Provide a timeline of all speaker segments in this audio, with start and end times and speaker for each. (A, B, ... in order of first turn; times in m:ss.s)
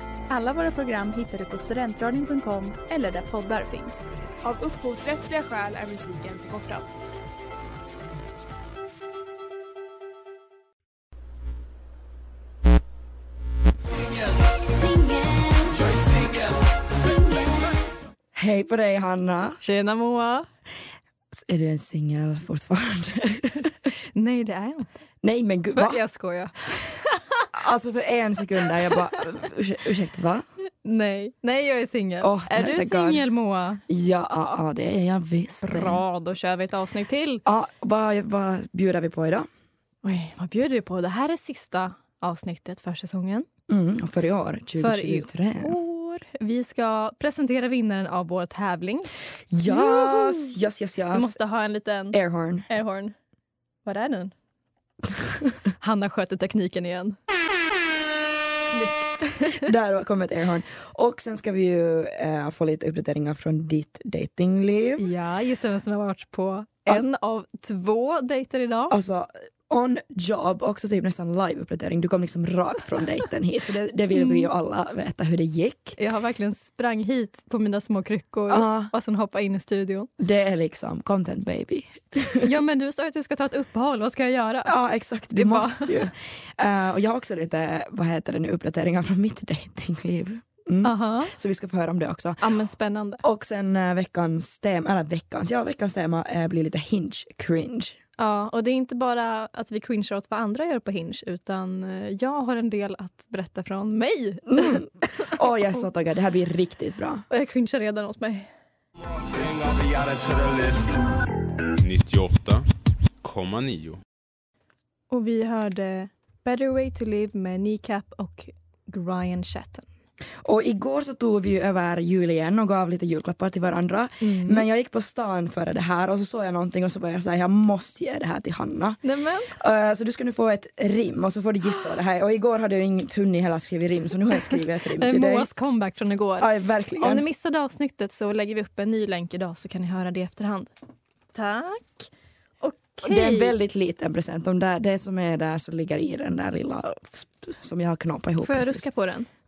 0:00.3-0:04.0 A
0:04.4-0:06.9 B
0:14.9-0:15.6 A
0:18.3-0:19.6 C
0:19.6-0:20.4 D
0:21.3-0:23.7 C
0:24.1-0:25.0 D
0:25.2-0:26.0 C
0:25.7-0:27.5 D
0:27.5-0:30.4 C
0:30.8-0:33.8 D
0:32.2-0:33.2 C
0:33.9-0:36.0 C
0:35.6-0:37.4 D
0:37.4-0:39.5 C
0:40.0-0:43.5 D
0:43.7-0:45.8 C
0:44.8-0:49.1 D
0:49.5-0:51.4 C
0:49.6-0:50.5 D
0:51.1-0:53.1 D
0:52.1-0:52.7 C
0:53.8-0:54.3 D
0:55.8-0:57.2 D
0:58.6-1:05.1 C
0:59.3-0:59.6 D
1:05.0-1:09.0 D
1:08.9-1:16.0 C
1:14.1-1:14.5 D
1:16.0-1:20.1 D
1:18.5-1:18.9 C
1:20.2-1:22.5 C
1:22.4-1:24.7 D
1:24.6-1:32.4 C
1:25.3-1:26.1 D
1:30.8-1:31.3 D
1:32.4-1:33.2 D
1:33.2-1:38.0 C
1:38.2-1:45.3 D
1:44.5-1:47.2 C
1:47.3-1:48.5 D
1:49.2-1:51.0 E
1:51.8-1:52.6 E
1:53.2-1:54.0 E
1:55.1-1:59.9 D
2:00.4-2:15.5 C
2:04.2-2:04.6 D
2:09.0-2:09.5 D
2:14.5-2:20.7 D
2:16.4-2:17.2 C
2:21.3-2:22.1 D
2:22.6-2:23.6 D
2:23.0-2:28.8 C
2:28.4-2:29.3 D